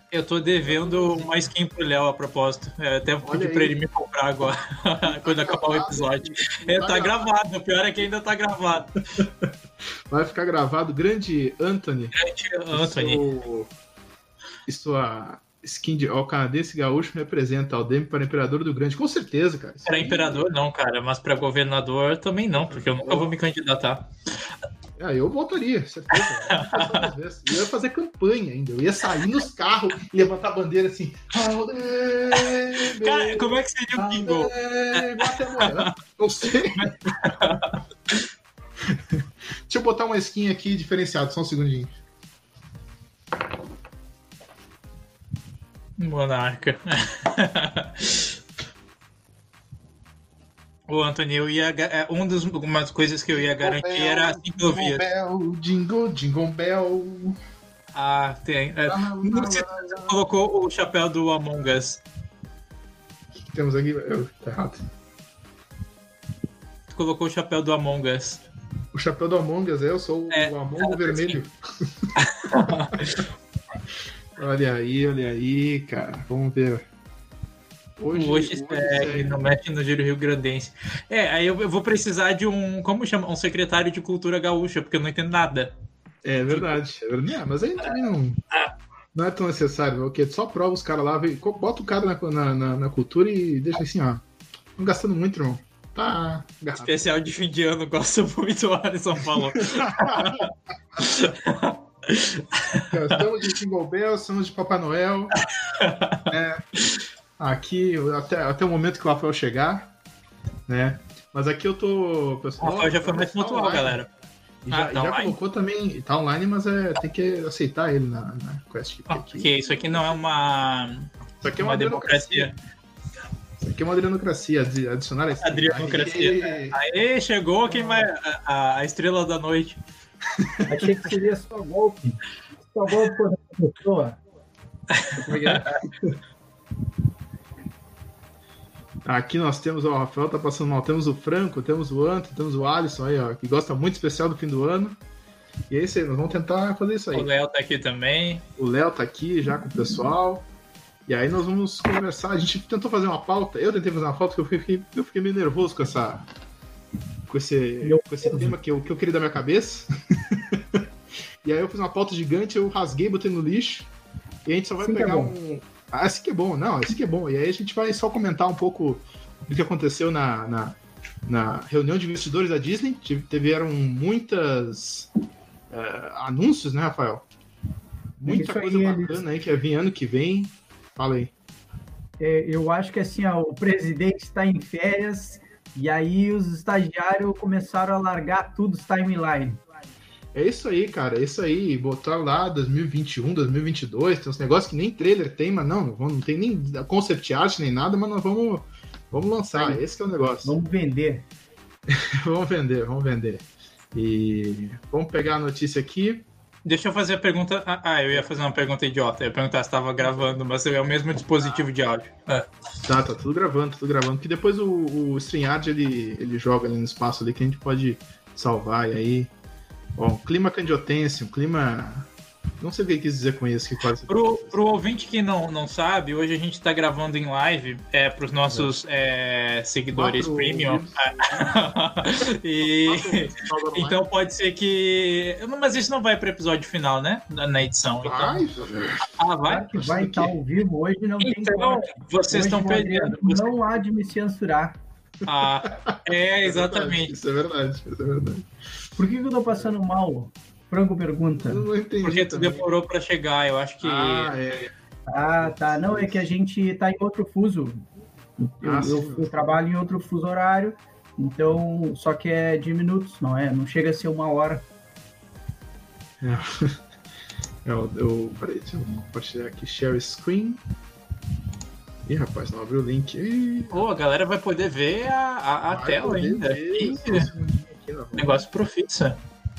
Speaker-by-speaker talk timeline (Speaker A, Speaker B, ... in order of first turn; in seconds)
Speaker A: 0.1-9.0, 12.2-13.2, 19.9-24.1, 26.1-27.1, 32.3-35.9, 36.8-37.8, 46.0-48.3, 50.9-55.0, 57.9-62.0, 66.9-68.4, 70.3-71.4, 72.2-73.2, 78.1-85.7, 86.5-86.8, 96.8-100.5, 101.0-102.8, 105.8-106.3, 112.6-114.1, 114.7-115.4, 119.1-122.5, 125.4-129.8, 134.9-135.7, 147.1-148.4, 206.6-212.5, 224.1-238.5, 239.1-239.7, 241.2-243.8, 245.2-247.1, 252.0-254.3, 273.7-277.3, 278.2-279.2
Speaker B: 0.7-1.4, 3.2-3.8, 5.0-7.3, 9.2-9.5, 10.1-12.1, 12.7-13.7, 14.7-20.5, 22.6-23.3, 25.0-36.9, 38.9-41.9, 53.3-57.4, 58.9-60.2, 63.4-64.8, 68.9-72.1, 74.4-76.9, 78.0-79.4, 86.2-88.4, 89.1-94.2, 94.8-97.0, 99.6-100.5, 102.8-105.4, 106.3-106.6, 107.4-109.9, 110.7-114.0, 114.7-120.2, 121.4-122.5, 123.6-126.8, 130.4-130.9, 135.2-136.2, 139.1-145.0, 145.7-147.3, 148.6-150.5, 151.1-156.2, 157.3-160.8, 161.4-163.9, 164.5-175.1, 175.7-177.2, 178.2-181.3, 190.3-200.6, 201.9-206.2, 210.0-210.3, 212.8-219.3, 220.0-222.1, 222.6-224.7, 228.5-228.8, 229.9-231.7, 232.6-234.1, 238.0-239.2, 239.7-240.3, 245.2-248.5, 251.3-252.7, 253.8-256.2, 258.6-259.6, 266.2-266.8, 267.6-270.6, 272.1-273.9, 275.7-278.4
Speaker C: 130.7-134.2, 135.4-135.7, 157.8-158.5, 164.8-165.3, 178.2-179.2, 182.2-189.6, 199.5-199.8, 200.4-201.3, 239.5-244.8, 249.0-251.7, 255.1-257.8, 258.4-264.6